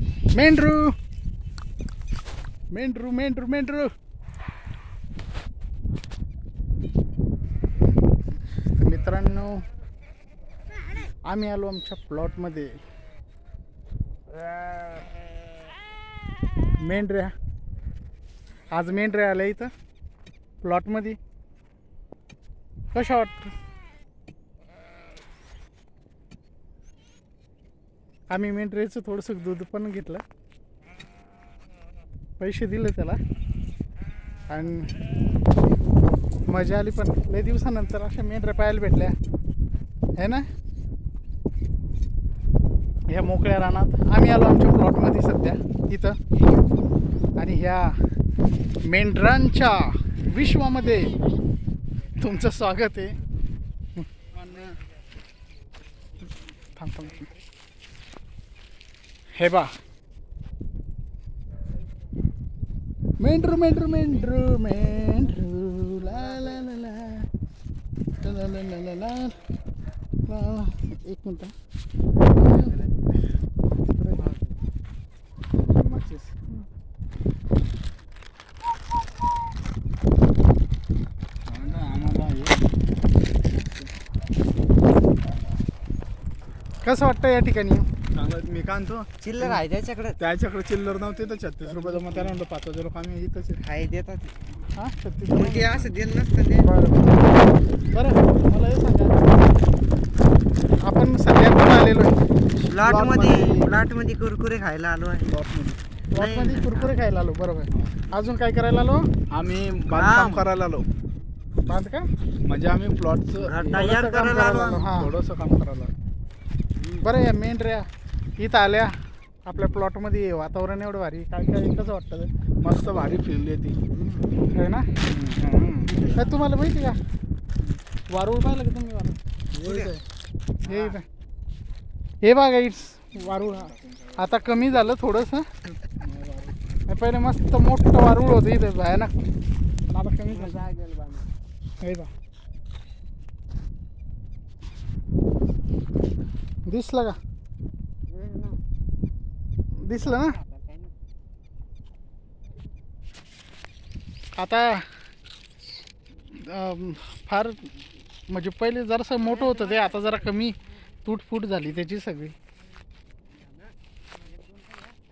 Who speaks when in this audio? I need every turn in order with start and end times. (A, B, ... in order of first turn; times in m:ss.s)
0:00.4-0:00.9 A
0:02.7-0:03.9 A
0:08.7-0:09.6 A
0:11.3-0:12.8 A
0:16.8-0:17.3 A
0:18.7-0:19.7 A
0:20.6-0:21.2 A
0:22.9-0:23.5 A
0:28.3-0:30.2 A
0:32.4-0:33.2 A
0:34.5-0:34.9 A
0:36.5-0:39.2 A
0:40.2-0:40.5 A
0:43.1-0:46.2 A
0:47.4-0:48.0 A
0:48.9-0:51.2 A
0:52.2-0:53.2 A
0:54.0-0:54.7 A
0:56.7-0:57.3 A
0:59.4-0:59.7 A
1:03.2-1:07.3 A
1:08.2-1:09.4 A
1:10.3-1:11.5 A
1:12.4-1:12.8 A
1:13.8-1:14.3 A
1:14.2-1:14.6 B
1:15.6-1:16.3 C
1:21.5-1:22.7 C
1:26.8-1:27.8 A
1:28.2-1:29.6 C
1:29.2-1:30.2 B
1:30.2-1:33.6 C
1:31.7-1:32.3 A
1:33.6-1:34.3 B
1:34.7-1:35.9 A
1:35.3-1:36.7 B
1:36.6-1:37.2 A
1:37.9-1:39.3 A
1:40.8-1:42.2 A
1:42.7-1:43.8 C
1:42.7-1:45.3 B
1:45.3-1:45.8 C
1:46.1-1:49.1 A
1:46.2-1:46.9 B
1:49.3-1:50.8 C
1:49.9-1:50.5 B
1:51.7-1:52.1 A
1:52.4-1:54.2 C
1:53.4-1:54.8 B
1:53.7-1:55.1 A
1:54.7-1:55.9 C
1:57.0-1:57.8 A
1:58.4-1:58.9 A
1:59.5-2:02.3 A
2:02.6-2:03.8 C
2:04.5-2:05.0 A
2:05.1-2:06.1 C
2:05.9-2:07.0 A
2:08.1-2:09.2 A
2:09.5-2:10.0 C
2:09.6-2:09.9 B
2:10.6-2:11.0 A
2:10.7-2:11.0 B
2:12.2-2:15.5 A
2:13.2-2:14.9 C
2:15.9-2:16.7 C
2:16.9-2:19.1 A
2:19.9-2:20.6 A
2:20.3-2:21.3 B
2:21.8-2:22.1 A
2:26.7-2:27.2 A
2:28.1-2:28.6 B
2:29.8-2:30.4 A
2:29.9-2:30.9 B
2:34.4-2:34.9 A
2:36.3-2:37.7 A
2:38.3-2:42.3 A
2:39.4-2:40.1 B
2:44.4-2:44.9 B